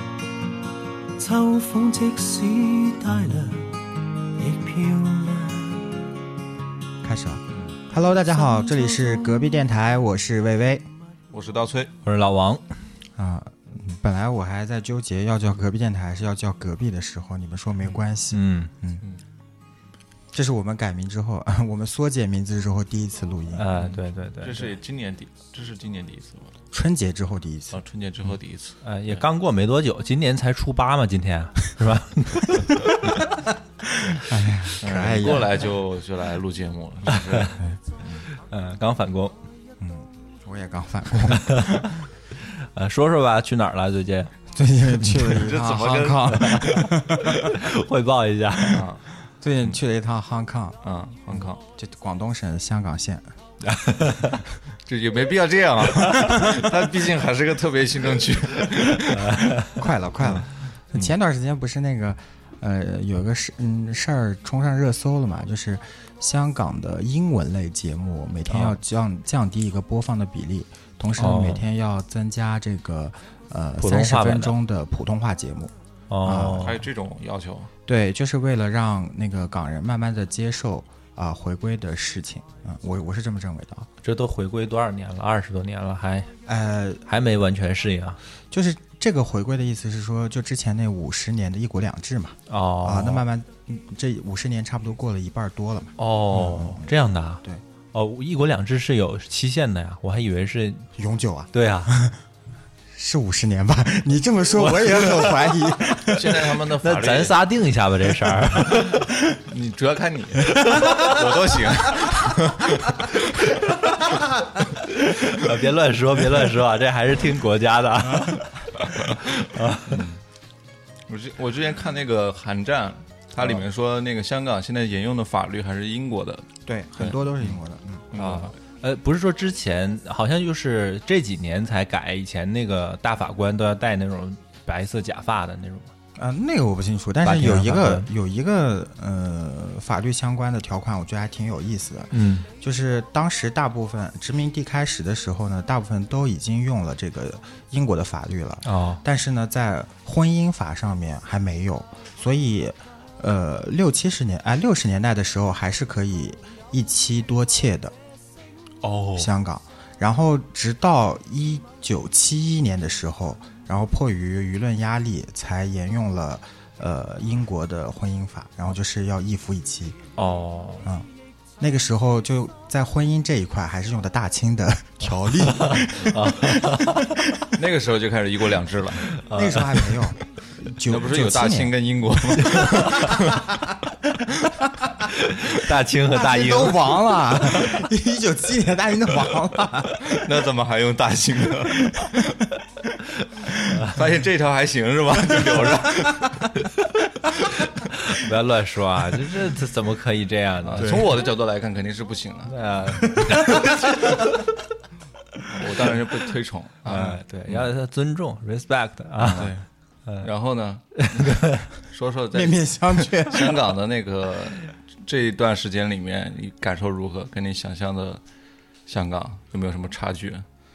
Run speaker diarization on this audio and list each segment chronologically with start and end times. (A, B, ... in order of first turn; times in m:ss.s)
0:01.2-0:06.1 A
0:07.0-0:10.8 B
0:11.3-0:11.9 C
0:12.0-0:12.6 D
0:13.2-0:19.0 B
0:18.3-0:18.7 D
0:20.3-0:23.7 B
0:23.5-0:24.7 D
0:23.7-0:26.5 C
0:26.7-0:27.8 B
0:27.7-0:29.2 C
0:28.8-0:32.9 D
0:34.1-0:35.7 B
0:34.8-0:37.6 C
0:37.1-0:37.5 D
0:37.6-0:38.2 B
0:38.3-0:39.4 D
0:39.8-0:42.0 B
0:41.3-0:44.3 D
0:44.5-0:47.6 B
0:45.2-0:46.3 C
0:46.3-0:48.8 D
0:48.7-0:49.0 C
0:49.3-0:53.3 B
0:50.8-0:51.6 C
0:53.6-0:54.4 D
0:54.8-0:59.4 C
0:56.1-0:56.6 B
0:59.1-0:59.8 D
0:59.8-1:16.7 B
1:00.2-1:01.1 C
1:08.5-1:08.8 D
1:11.2-1:11.6 D
1:13.8-1:14.6 D
1:16.1-1:16.8 D
1:16.6-1:17.7 C
1:17.8-1:23.9 B
1:24.0-1:26.3 D
1:26.4-1:27.0 B
1:27.0-1:28.2 D
1:28.5-1:36.9 B
1:32.5-1:33.2 D
1:36.0-1:40.9 D
1:40.9-1:42.2 B
1:41.5-1:41.9 D
1:42.9-1:46.6 B
1:44.6-1:45.4 D
1:46.1-1:47.4 C
1:46.8-1:49.0 D
1:49.4-1:53.5 C
1:50.5-1:51.2 B
1:53.7-1:54.0 D
1:54.8-1:58.5 D
1:58.0-1:58.5 B
1:58.8-1:59.2 C
1:59.2-2:00.0 D
1:59.9-2:00.2 C
2:01.1-2:06.5 C
2:06.6-2:08.1 B
2:07.0-2:07.5 C
2:08.1-2:08.5 C
2:08.2-2:15.9 D
2:16.2-2:37.9 B
2:17.2-2:18.1 D
2:22.1-2:22.5 D
2:28.6-2:29.0 D
2:38.8-2:39.3 D
2:39.2-2:50.0 B
2:50.2-2:50.8 D
2:51.6-2:57.5 B
2:55.6-2:57.1 D
2:57.5-2:59.1 C
2:59.2-2:59.9 D
2:59.3-3:01.7 B
3:00.8-3:03.5 C
3:02.5-3:03.0 D
3:02.7-3:03.7 B
3:05.1-3:07.4 D
3:06.1-3:10.2 B
3:09.9-3:12.4 C
3:11.8-3:12.2 B
3:13.7-3:14.0 D
3:13.9-3:16.5 C
3:15.3-3:16.5 B
3:17.6-3:21.0 D
3:20.6-3:22.6 C
3:20.8-3:21.1 B
3:22.5-3:23.8 D
3:23.1-3:24.3 B
3:25.5-3:27.7 C
3:26.8-3:29.5 D
3:26.9-3:27.2 B
3:29.2-3:29.6 C
3:30.2-3:38.2 C
3:31.0-3:31.6 D
3:32.3-3:33.8 B
3:38.9-3:40.4 C